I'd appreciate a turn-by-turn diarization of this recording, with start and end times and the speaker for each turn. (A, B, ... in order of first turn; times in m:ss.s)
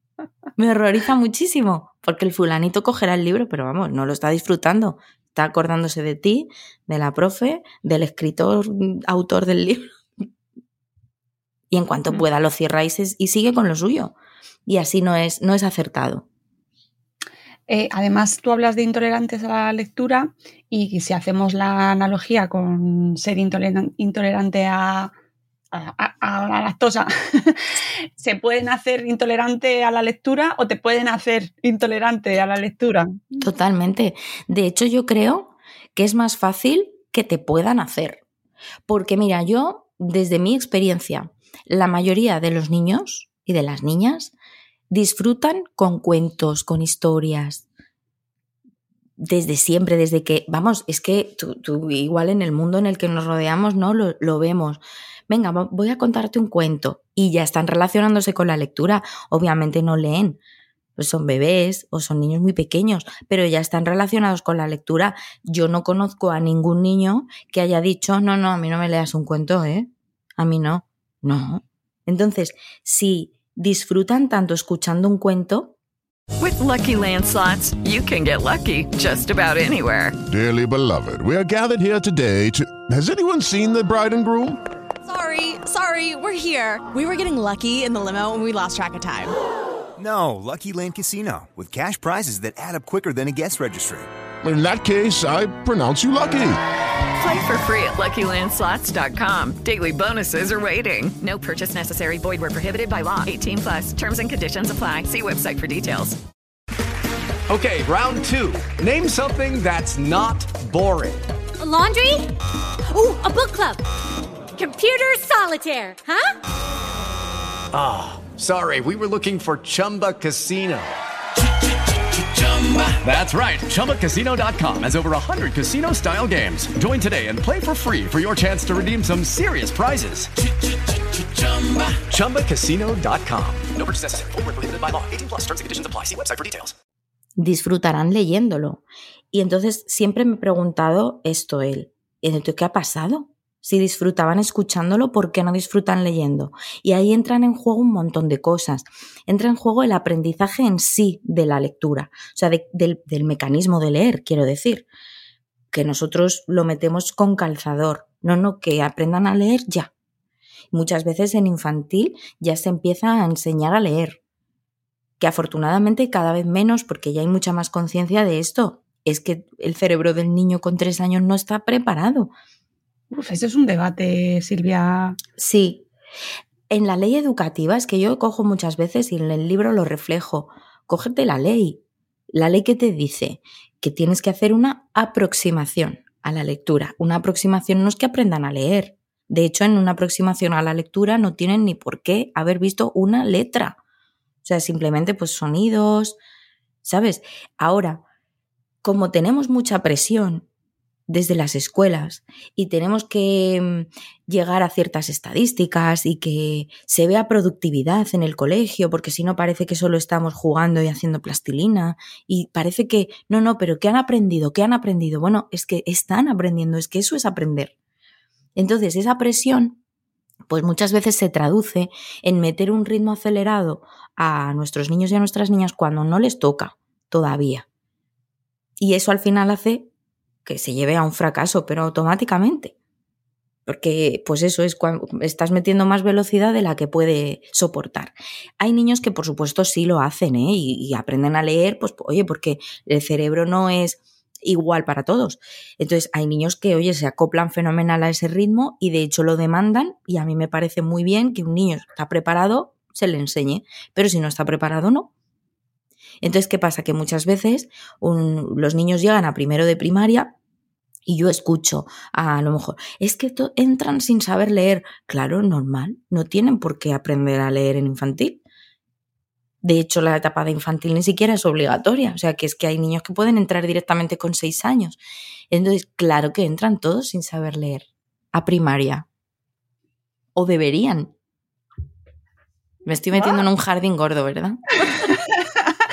0:00.6-0:09.9 A
0:11.7-0:14.2 A
0:14.7-0:16.2 A
0:17.7-0:25.1 B
0:25.7-0:33.4 B
0:33.4-0:38.2 A
0:38.9-0:44.3 A
0:44.9-0:47.6 A
0:49.2-1:00.4 A
1:01.0-1:15.8 A
1:16.4-1:20.2 C
1:20.3-1:24.6 D
1:25.0-1:29.4 E
1:30.0-1:34.1 F
1:34.4-1:36.6 D
1:37.2-1:46.2 C
1:47.5-1:51.2 G
1:51.6-1:52.3 H
1:52.9-1:53.8 H
1:54.5-1:56.3 H
1:57.7-2:00.9 G
2:03.0-2:10.3 G
2:11.4-2:11.8 I
2:12.1-2:13.7 G
2:13.7-2:16.7 I
2:17.4-2:34.9 A
2:35.7-2:39.9 A
2:40.7-2:44.2 A
2:45.2-2:52.3 A
2:53.1-2:55.2 B
2:55.4-2:55.9 A
2:56.7-3:13.8 A
3:14.4-3:16.2 A
3:16.8-3:18.0 A
3:18.8-3:20.5 A
3:21.1-3:37.7 A
3:38.6-3:39.8 A
3:40.5-3:47.7 A
3:48.8-3:49.9 A
3:50.4-3:52.8 A
3:53.7-4:15.1 A
4:16.2-4:20.4 A
4:21.1-4:28.4 A
4:29.6-4:35.0 A
4:35.5-4:39.1 A
4:40.4-4:41.1 A
4:42.9-4:44.9 A
4:43.1-4:43.5 B
4:45.0-4:45.7 B